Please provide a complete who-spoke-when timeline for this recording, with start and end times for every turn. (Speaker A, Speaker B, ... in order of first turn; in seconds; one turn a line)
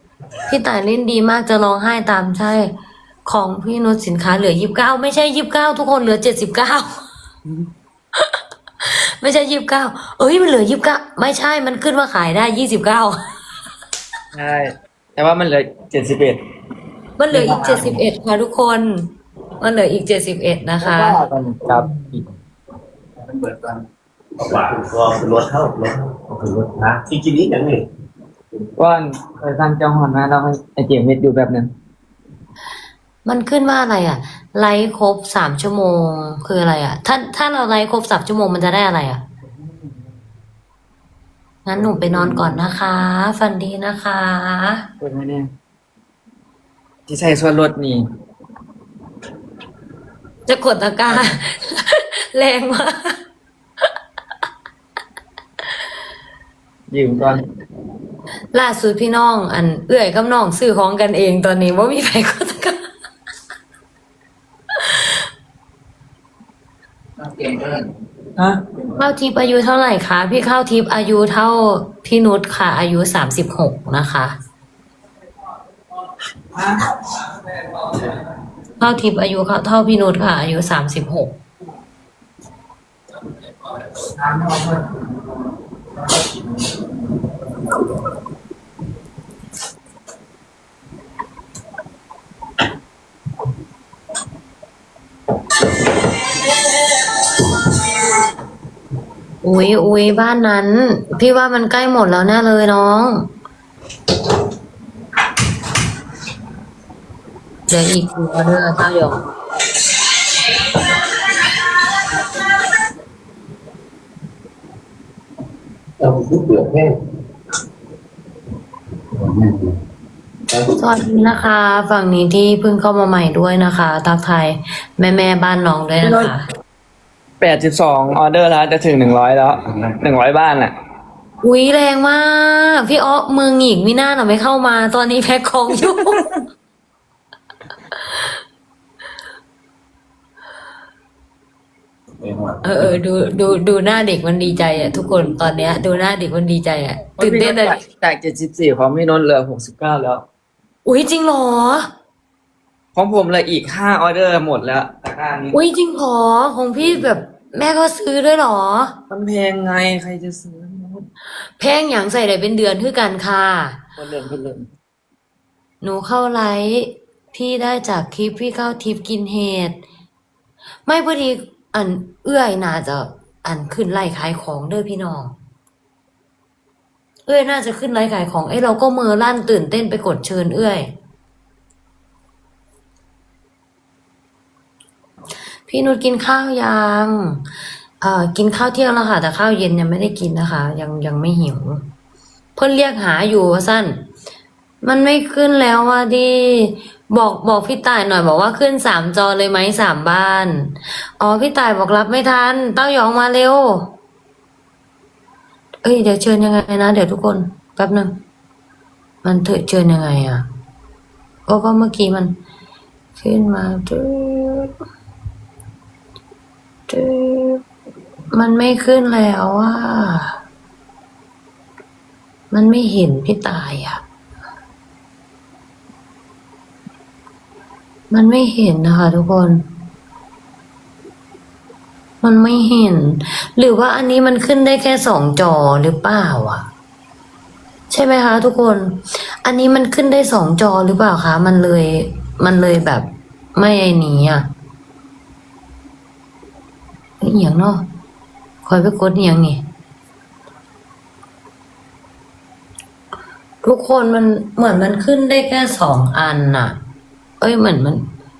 Speaker A: 0.5-2.7
Speaker A: 3.3-6.9
Speaker A: 8.2-13.2
Speaker B: 14.3-16.4
Speaker A: 17.2-19.1
Speaker B: 17.3-18.0
Speaker A: 19.6-21.2
Speaker B: 20.8-22.3
Speaker C: 23.2-23.8
Speaker C: 24.4-27.9
Speaker B: 28.8-31.7
Speaker A: 33.2-39.2
Speaker B: 39.6-40.1
Speaker A: 41.6-44.9
Speaker B: 41.8-42.6
Speaker B: 45.0-45.5
Speaker B: 47.1-48.0
Speaker A: 50.5-53.2
Speaker B: 51.1-51.4
Speaker B: 56.9-57.4
Speaker A: 58.5-62.8
Speaker A: 64.8-65.1
Speaker B: 68.4-68.6
Speaker A: 68.9-74.4
Speaker A: 78.8-81.4
Speaker B: 84.2-85.0
Speaker A: 99.4-103.3
Speaker A: 107.7-109.2
Speaker C: 116.0-117.0
Speaker C: 119.2-119.7
Speaker A: 120.8-126.4
Speaker B: 126.0-126.3
Speaker B: 127.4-130.7
Speaker A: 131.4-136.2
Speaker B: 135.8-136.2
Speaker A: 138.1-138.3
Speaker C: 142.2-143.0
Speaker A: 142.6-147.8
Speaker B: 147.2-150.3
Speaker A: 150.8-151.9
Speaker B: 152.9-155.6
Speaker A: 155.5-159.0
Speaker B: 159.1-161.1
Speaker A: 161.6-163.8
Speaker B: 164.0-164.7
Speaker A: 165.8-169.8
Speaker A: 170.9-175.4
Speaker A: 177.3-180.9
Speaker A: 185.7-187.4
Speaker A: 188.0-191.9
Speaker A: 192.6-194.0
Speaker A: 194.8-203.9
Speaker A: 205.8-208.2
Speaker A: 209.2-210.5
Speaker A: 211.5-212.3
Speaker A: 213.2-214.8
Speaker A: 216.9-217.6
Speaker A: 218.3-220.4
Speaker A: 222.5-224.0
Speaker A: 228.1-229.7
Speaker A: 232.2-236.7
Speaker A: 237.9-244.5
Speaker A: 247.2-247.8
Speaker A: 248.6-249.6
Speaker A: 253.6-256.8
Speaker A: 257.4-258.1